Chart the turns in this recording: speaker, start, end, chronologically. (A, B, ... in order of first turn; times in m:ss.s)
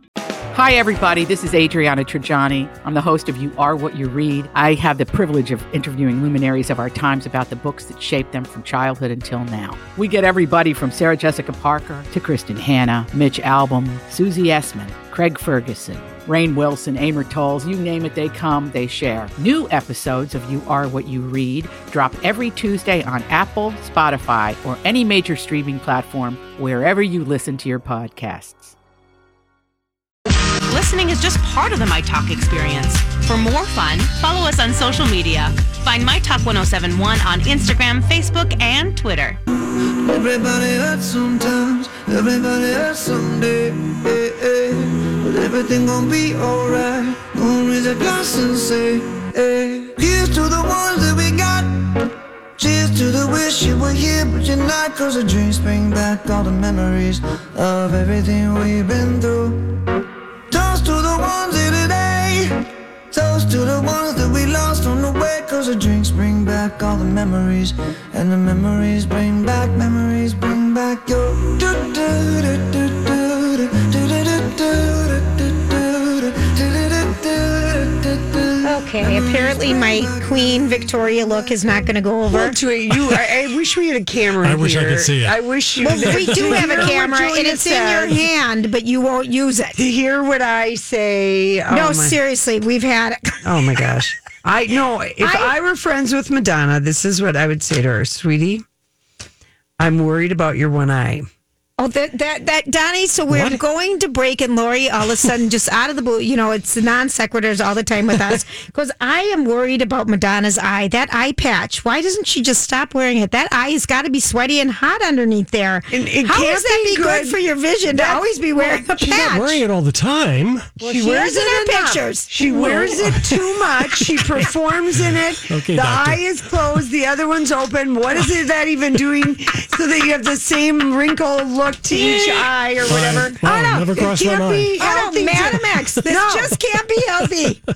0:00.5-0:28.8 A
0:30.7-0:39.4 B
0:40.0-0:51.9 C
0:52.6-0:59.7 C
1:00.5-1:02.5 C
1:03.1-1:21.6 C
1:18.6-1:22.6 D
1:22.3-1:28.3 E
1:24.4-1:26.9 F
1:25.8-1:29.8 D
1:29.8-1:32.2 E
1:31.7-1:33.4 D
1:33.4-1:38.6 E
1:35.2-1:35.5 D
1:39.8-1:41.2 E
1:41.8-1:59.6 D
1:43.3-1:43.6 F
1:55.9-1:59.3 E
1:59.0-2:00.8 F
2:00.8-2:13.4 E
2:00.8-2:03.0 D
2:04.9-2:06.2 F
2:11.9-2:12.5 D
2:12.8-2:14.8 F
2:13.4-2:14.0 D
2:13.9-2:16.6 E
2:14.8-2:17.6 D